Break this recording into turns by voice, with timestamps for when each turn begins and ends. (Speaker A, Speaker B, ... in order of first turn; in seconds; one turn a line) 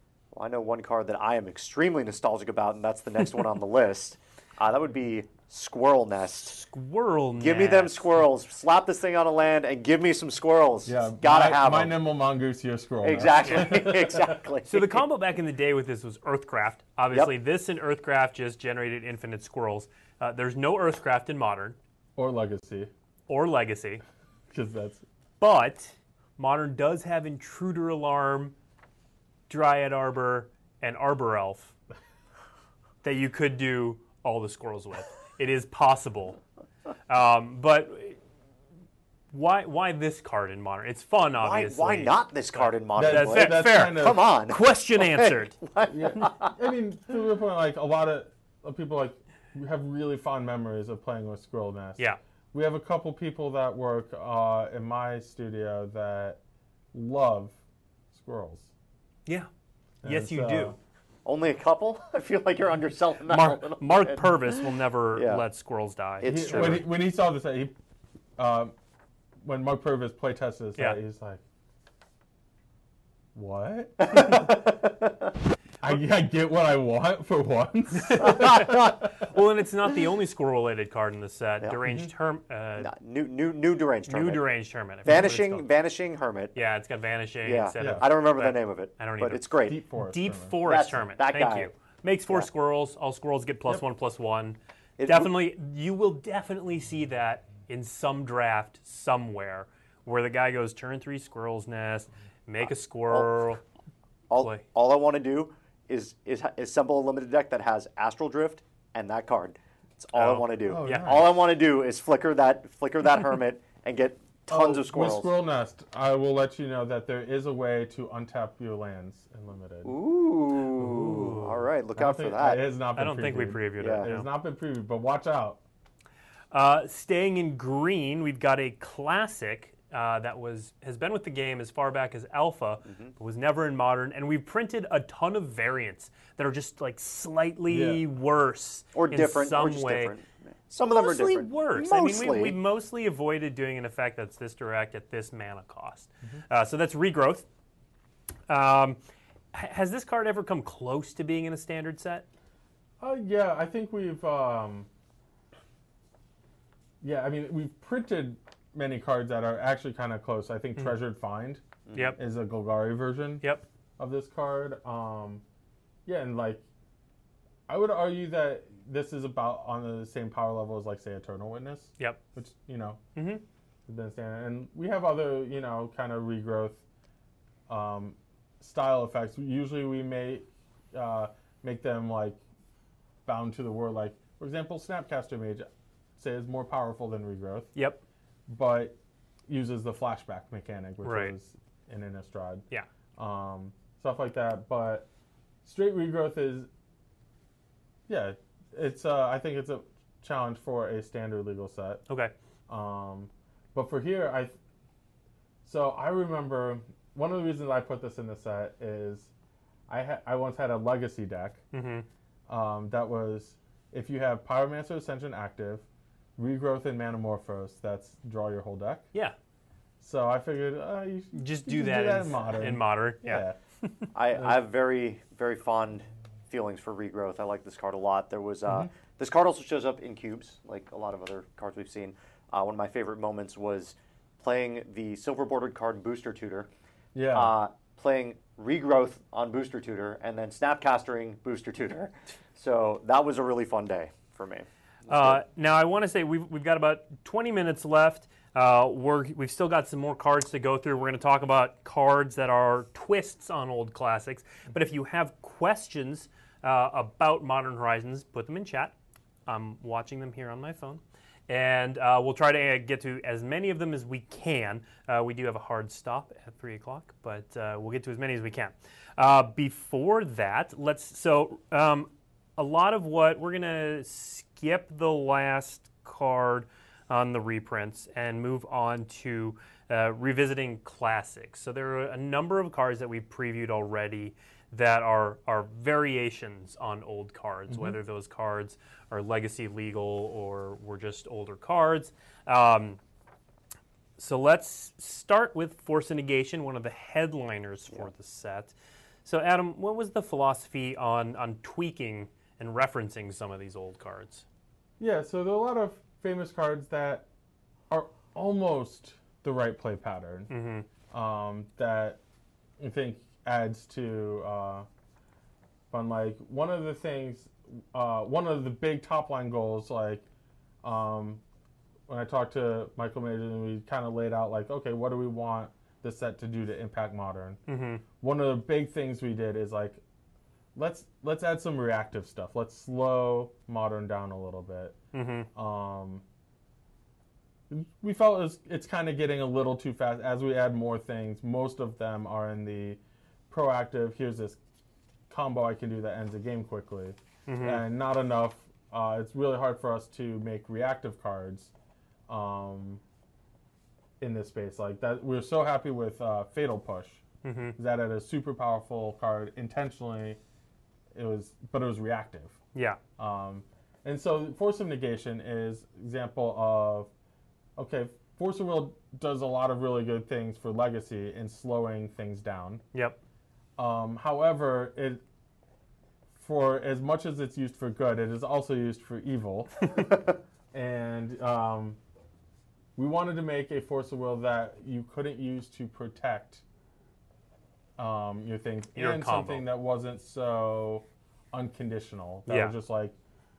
Speaker A: 0.3-6.6
Speaker B: 6.4-8.1
Speaker A: 7.4-11.9
Speaker C: 10.8-14.4
Speaker A: 13.0-15.0
Speaker B: 13.4-13.8
Speaker B: 14.6-21.8
Speaker C: 22.1-22.9
Speaker B: 23.3-24.0
Speaker C: 24.5-25.0
Speaker B: 25.4-28.5
Speaker B: 29.5-31.7
Speaker B: 33.0-36.4
Speaker B: 37.1-38.2
Speaker B: 39.3-45.6
Speaker A: 41.4-46.5
Speaker C: 43.0-44.2
Speaker C: 45.9-56.4
Speaker C: 56.9-57.6
Speaker C: 58.1-58.7
Speaker C: 60.0-60.8
Speaker B: 60.0-60.8
Speaker A: 61.2-64.6
Speaker B: 63.3-66.8
Speaker A: 65.1-65.4
Speaker A: 66.2-66.9
Speaker C: 66.2-67.7
Speaker C: 68.4-68.7
Speaker C: 69.4-71.4
Speaker C: 73.3-74.9
Speaker A: 74.0-75.1
Speaker C: 75.8-79.1
Speaker B: 78.1-82.9
Speaker A: 78.1-79.1
Speaker C: 81.8-82.1
Speaker A: 82.8-84.5
Speaker B: 84.0-85.7
Speaker A: 85.0-86.5
Speaker B: 86.5-103.6
Speaker A: 87.4-89.8
Speaker C: 87.8-88.0
Speaker C: 89.6-90.6
Speaker A: 90.6-91.7
Speaker A: 95.0-95.4
Speaker A: 102.6-103.5
Speaker A: 104.3-115.3
Speaker B: 104.4-104.6
Speaker B: 110.1-111.2
Speaker C: 110.6-111.3
Speaker C: 114.5-120.0
Speaker A: 119.8-122.6
Speaker B: 120.8-121.6
Speaker C: 122.0-125.6
Speaker B: 123.0-124.3
Speaker A: 123.8-124.1
Speaker B: 126.5-140.1
Speaker A: 132.8-133.1
Speaker C: 137.7-138.0
Speaker A: 138.9-142.6
Speaker B: 140.8-147.4
Speaker B: 148.5-149.0
Speaker B: 149.5-152.2
Speaker C: 153.0-154.9
Speaker C: 157.0-161.6
Speaker A: 161.9-162.2
Speaker B: 161.9-162.2
Speaker C: 162.2-163.4
Speaker C: 164.0-165.4
Speaker C: 166.1-166.6
Speaker C: 167.7-173.0
Speaker B: 173.2-173.4
Speaker C: 173.9-176.8
Speaker C: 177.7-182.4
Speaker C: 183.2-187.7
Speaker B: 187.7-188.0
Speaker C: 188.5-195.1
Speaker B: 191.0-191.3
Speaker C: 195.6-196.7
Speaker C: 198.1-202.0
Speaker C: 202.7-204.6
Speaker C: 205.6-209.3
Speaker C: 209.9-211.6
Speaker B: 211.7-212.1
Speaker C: 212.5-215.8
Speaker C: 216.4-219.1
Speaker C: 220.0-223.6
Speaker B: 221.3-223.9
Speaker A: 224.1-236.7
Speaker C: 228.7-228.9
Speaker C: 237.1-237.5
Speaker A: 237.3-245.4
Speaker B: 245.1-258.9
Speaker B: 259.5-293.0
Speaker C: 287.7-288.0
Speaker B: 294.2-298.7
Speaker B: 299.2-304.4
Speaker C: 305.0-307.2
Speaker C: 307.9-310.5
Speaker B: 310.5-310.9
Speaker C: 311.1-312.2
Speaker C: 312.8-314.9
Speaker C: 315.9-320.2
Speaker C: 320.8-321.4
Speaker C: 322.1-327.6
Speaker B: 327.7-328.0
Speaker C: 328.2-330.0
Speaker C: 330.7-334.9
Speaker B: 335.1-335.5
Speaker C: 335.5-336.2
Speaker C: 337.7-344.6
Speaker C: 345.3-351.7
Speaker B: 347.5-347.8
Speaker C: 352.3-353.0
Speaker C: 354.2-357.2
Speaker B: 357.4-357.8
Speaker C: 357.8-360.4
Speaker C: 361.1-362.6
Speaker B: 362.7-363.0
Speaker C: 363.2-367.1
Speaker C: 367.8-372.8
Speaker B: 372.9-373.2
Speaker C: 373.8-375.2
Speaker C: 376.3-380.1
Speaker C: 380.7-382.0
Speaker C: 382.9-386.6
Speaker C: 388.0-393.1
Speaker B: 388.9-389.6
Speaker B: 392.5-392.8